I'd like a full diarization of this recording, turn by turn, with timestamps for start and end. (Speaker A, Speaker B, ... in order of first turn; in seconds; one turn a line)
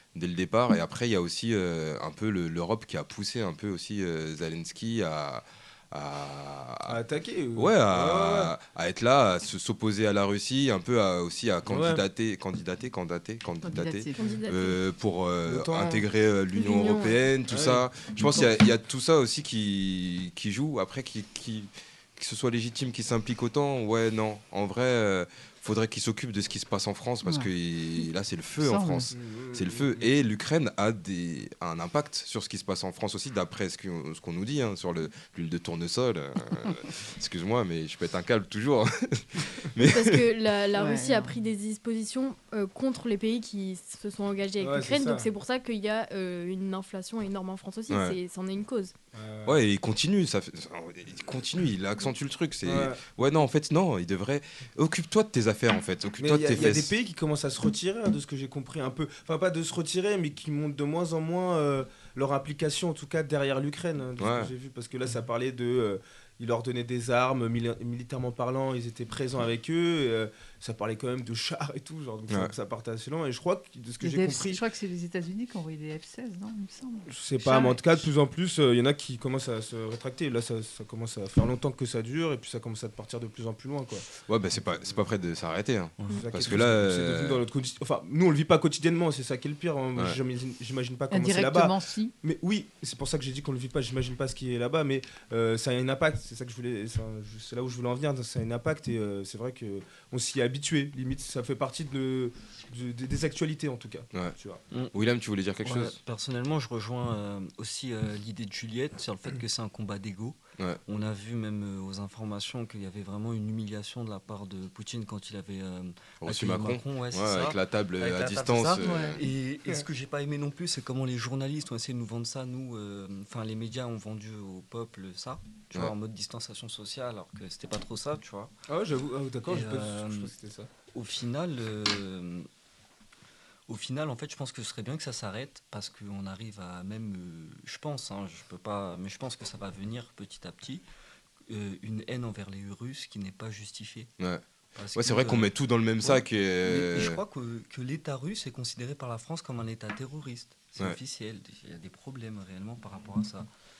Speaker A: 0.1-7.0
Speaker B: 6.9-8.5
Speaker A: 7.5-40.2
Speaker B: 11.7-12.0
Speaker C: 13.6-14.4
Speaker D: 14.1-14.8
Speaker B: 15.4-16.0
Speaker D: 16.6-17.1
Speaker B: 17.5-18.4
Speaker C: 27.2-27.5
Speaker C: 28.6-29.1
Speaker B: 29.1-30.1
Speaker D: 39.8-48.9
Speaker C: 40.7-41.3
Speaker B: 44.6-45.3
Speaker A: 47.9-48.1
Speaker B: 49.1-49.6
Speaker A: 49.4-56.9
Speaker B: 52.6-53.0
Speaker B: 56.2-74.6
Speaker A: 64.2-64.5
Speaker C: 74.0-77.8
Speaker B: 77.1-84.1
Speaker A: 84.3-87.4
Speaker B: 86.2-104.6
Speaker C: 91.1-92.1
Speaker A: 104.9-106.0
Speaker E: 105.6-128.5
Speaker A: 116.2-119.2
Speaker C: 118.8-119.1
Speaker B: 128.7-130.7
Speaker E: 129.5-130.3
Speaker E: 130.9-132.5
Speaker E: 133.7-140.8
Speaker E: 141.5-144.1
Speaker E: 144.8-153.5
Speaker A: 144.9-147.2